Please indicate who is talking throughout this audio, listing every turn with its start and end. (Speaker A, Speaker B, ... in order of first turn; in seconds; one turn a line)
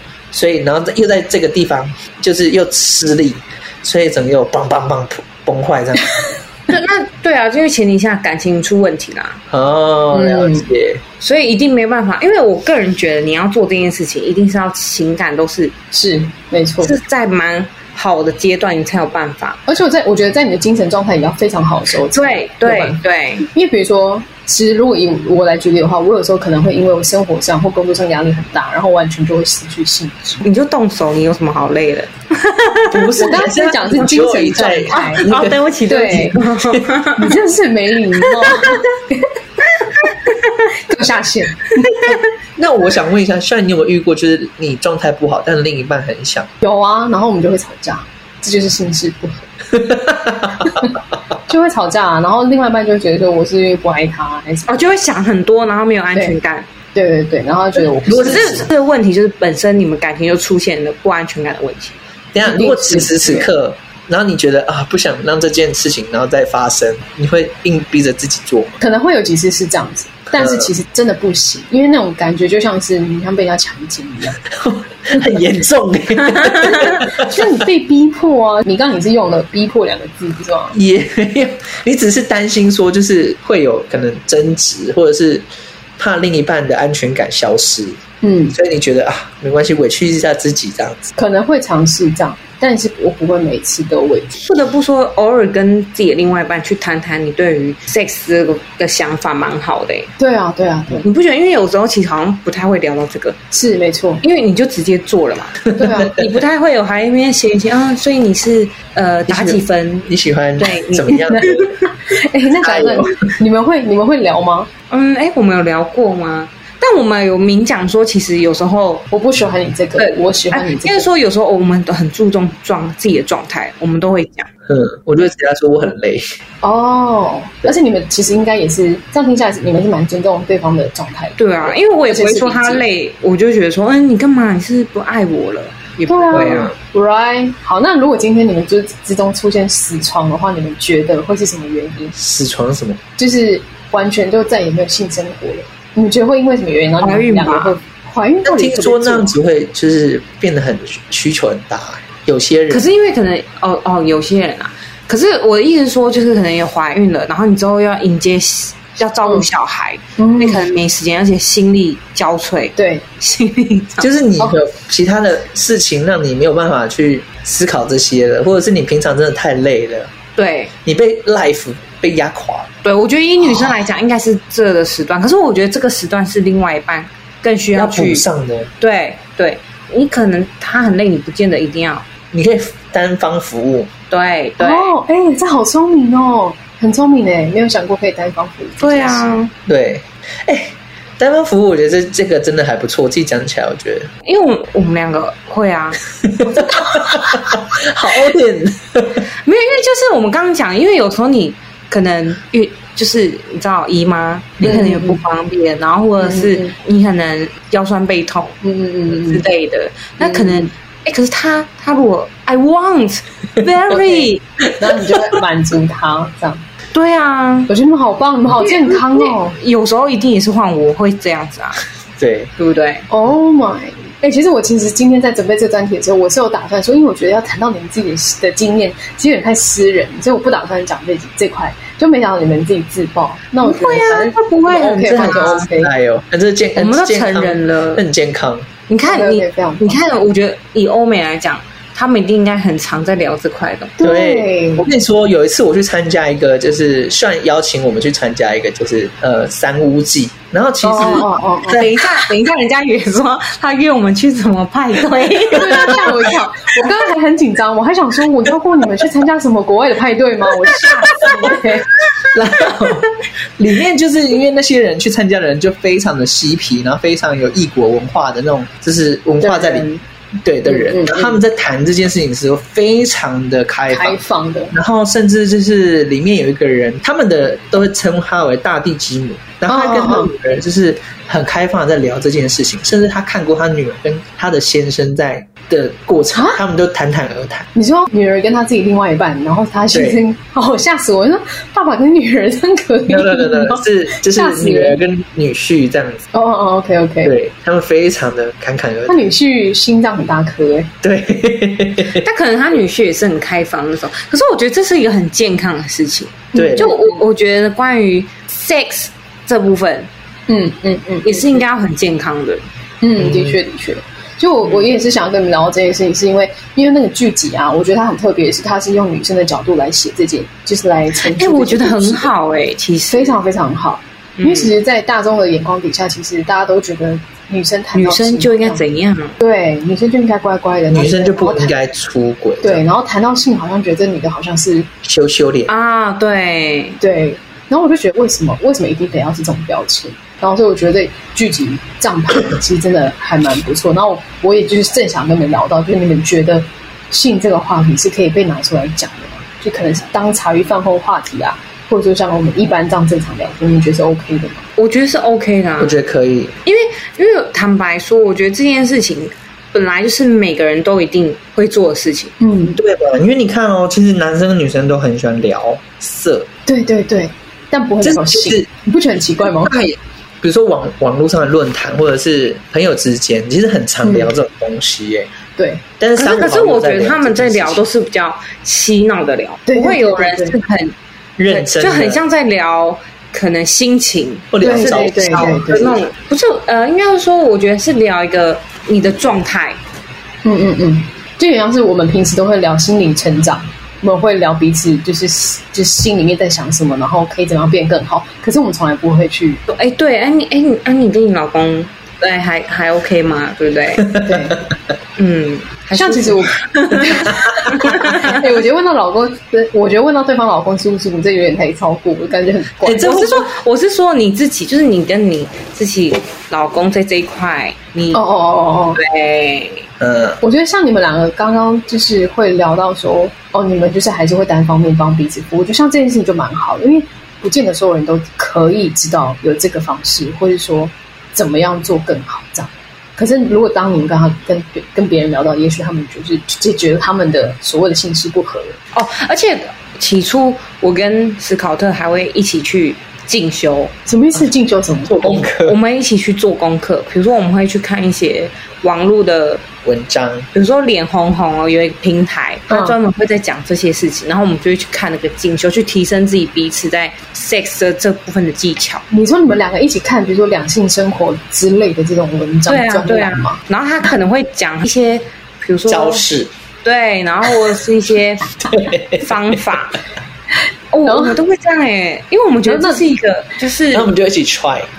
Speaker A: 0.3-6.1
Speaker B: 6.7-9.4
Speaker A: 9.5-11.0
Speaker C: 10.1-10.7
Speaker B: 11.2-15.7
Speaker C: 15.9-16.9
Speaker B: 16.8-19.6
Speaker C: 19.7-30.4
Speaker B: 22.1-23.5
Speaker B: 30.4-33.3
Speaker A: 32.9-35.6
Speaker C: 33.2-35.3
Speaker B: 34.9-37.4
Speaker C: 35.9-36.4
Speaker A: 36.6-36.8
Speaker C: 37.2-39.3
Speaker B: 38.2-38.8
Speaker B: 40.0-40.7
Speaker C: 40.9-42.0
Speaker B: 41.8-42.2
Speaker A: 42.6-46.5
Speaker C: 46.6-49.5
Speaker A: 49.7-50.7
Speaker C: 50.7-51.0
Speaker C: 51.5-55.0
Speaker B: 54.7-56.7
Speaker C: 57.0-58.7
Speaker A: 58.1-58.6
Speaker B: 58.1-62.0
Speaker A: 62.3-68.8
Speaker C: 62.4-63.5
Speaker C: 68.8-74.4
Speaker A: 70.4-70.7
Speaker A: 74.5-77.5
Speaker C: 77.1-80.8
Speaker A: 80.7-85.5
Speaker A: 86.0-88.0
Speaker C: 88.2-88.6
Speaker A: 88.5-91.1
Speaker C: 91.2-94.3
Speaker B: 94.4-100.1
Speaker C: 100.2-101.1
Speaker B: 101.0-103.4
Speaker C: 103.5-104.2
Speaker B: 104.2-111.5
Speaker C: 105.8-106.2
Speaker A: 105.8-106.1
Speaker A: 109.3-111.7
Speaker C: 111.3-111.6
Speaker C: 112.1-114.7
Speaker A: 112.6-113.2
Speaker B: 114.9-119.0
Speaker C: 119.1-121.1
Speaker B: 120.0-124.5
Speaker A: 124.7-126.3
Speaker C: 126.6-132.8
Speaker B: 131.4-136.7
Speaker C: 136.1-142.2
Speaker A: 136.3-136.7
Speaker A: 142.2-143.0
Speaker C: 143.2-149.3
Speaker B: 147.0-147.8
Speaker A: 148.4-152.9
Speaker B: 152.7-164.1
Speaker C: 160.2-160.6
Speaker C: 162.8-163.1
Speaker A: 164.0-170.1
Speaker B: 170.4-170.7
Speaker A: 170.8-172.7
Speaker B: 172.8-178.3
Speaker A: 177.8-178.7
Speaker B: 178.8-182.1
Speaker A: 182.3-183.9
Speaker B: 184.1-184.9
Speaker C: 184.6-189.3
Speaker B: 188.8-189.5
Speaker A: 189.7-194.1
Speaker B: 194.2-196.0
Speaker A: 196.2-199.2
Speaker B: 199.4-208.6
Speaker C: 204.6-205.2
Speaker C: 206.2-206.7
Speaker C: 208.6-209.4
Speaker B: 209.1-214.4
Speaker C: 210.2-210.7
Speaker C: 213.9-216.6
Speaker B: 216.9-217.7
Speaker C: 217.7-219.6
Speaker B: 218.6-221.8
Speaker A: 222.2-222.5
Speaker B: 222.6-223.1
Speaker C: 223.1-235.9
Speaker B: 233.6-235.7
Speaker A: 235.1-238.7
Speaker B: 236.8-238.0
Speaker B: 238.9-243.9
Speaker C: 239.0-240.0
Speaker C: 244.0-244.9
Speaker A: 244.0-252.2
Speaker C: 250.8-251.9
Speaker B: 251.7-256.1
Speaker C: 255.5-261.9
Speaker B: 261.1-261.4
Speaker A: 261.2-261.5
Speaker A: 262.3-269.9
Speaker C: 269.4-270.0
Speaker A: 270.4-274.2
Speaker C: 270.7-271.4
Speaker C: 273.9-274.7
Speaker A: 274.7-287.7
Speaker C: 279.7-280.3
Speaker C: 286.3-286.6
Speaker C: 287.8-295.0
Speaker A: 289.9-290.2
Speaker A: 293.1-296.2
Speaker C: 296.3-297.4
Speaker A: 297.2-299.3
Speaker C: 299.1-300.9
Speaker A: 301.0-302.2
Speaker B: 302.1-310.1
Speaker C: 306.5-307.1
Speaker A: 306.6-306.9
Speaker C: 310.5-311.6
Speaker B: 311.2-312.6
Speaker C: 313.0-322.3
Speaker B: 321.2-323.4
Speaker C: 323.1-328.8
Speaker B: 324.4-324.7
Speaker B: 327.9-329.4
Speaker C: 329.4-331.7
Speaker A: 330.9-332.8
Speaker C: 332.6-334.9
Speaker A: 335.0-335.7
Speaker B: 335.7-337.0
Speaker C: 337.0-354.7
Speaker B: 354.8-356.0
Speaker A: 355.8-356.5
Speaker B: 356.6-362.3
Speaker C: 362.4-362.8
Speaker A: 362.8-366.5
Speaker C: 366.7-369.7
Speaker A: 368.0-368.7
Speaker A: 369.4-375.3
Speaker C: 374.0-374.3
Speaker C: 375.6-375.9
Speaker A: 376.0-377.9
Speaker B: 376.2-381.0
Speaker C: 379.7-380.6
Speaker A: 381.4-382.2
Speaker B: 381.5-389.8
Speaker A: 384.5-385.8
Speaker C: 384.6-386.0
Speaker C: 390.4-399.6
Speaker B: 399.7-404.1
Speaker A: 404.0-404.5
Speaker C: 404.2-404.6
Speaker B: 405.2-408.4
Speaker C: 405.9-413.3
Speaker A: 412.9-413.4
Speaker B: 412.9-418.2
Speaker C: 418.1-419.0
Speaker B: 419.0-419.9
Speaker A: 420.0-420.4
Speaker C: 420.4-438.8
Speaker B: 438.9-443.9
Speaker C: 444.1-445.4
Speaker A: 445.1-445.8
Speaker B: 445.2-449.6
Speaker A: 449.8-450.5
Speaker B: 450.5-459.0
Speaker C: 452.7-452.9
Speaker C: 459.1-463.6
Speaker B: 462.7-466.2
Speaker A: 465.9-466.5
Speaker B: 466.8-468.6
Speaker A: 468.7-469.3
Speaker B: 469.2-470.0
Speaker B: 470.9-474.1
Speaker C: 471.1-471.4
Speaker C: 472.7-473.0
Speaker A: 473.9-474.9